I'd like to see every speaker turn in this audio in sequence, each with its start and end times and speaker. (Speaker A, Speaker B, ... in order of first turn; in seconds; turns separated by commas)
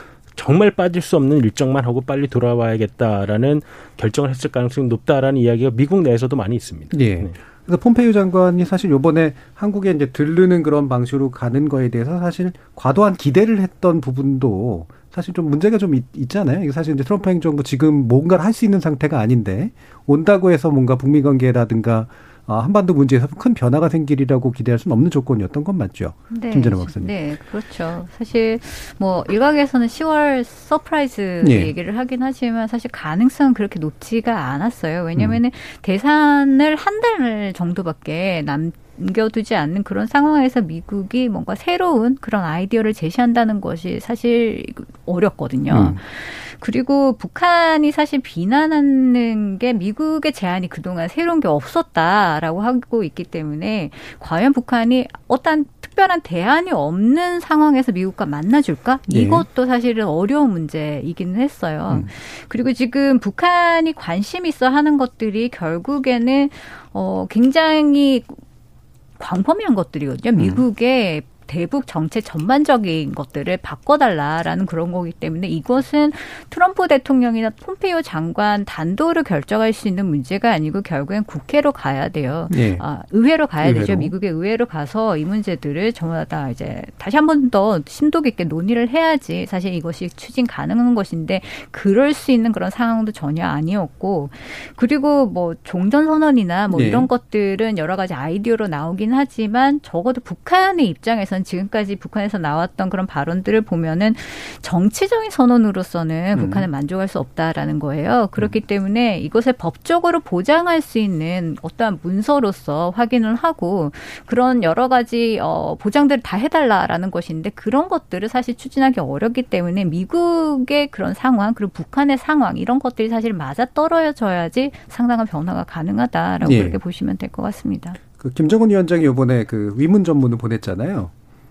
Speaker A: 0.3-7.3, Speaker B: 6.9-27.1, Speaker C: 26.3-68.3, Speaker B: 31.4-31.7, Speaker B: 45.7-46.0, Speaker B: 59.1-59.4, Speaker C: 69.2-128.0, Speaker B: 82.5-82.8, Speaker B: 83.6-84.1, Speaker B: 96.7-97.1, Speaker B: 106.3-106.7, Speaker B: 126.4-126.8, Speaker B: 128.2-131.1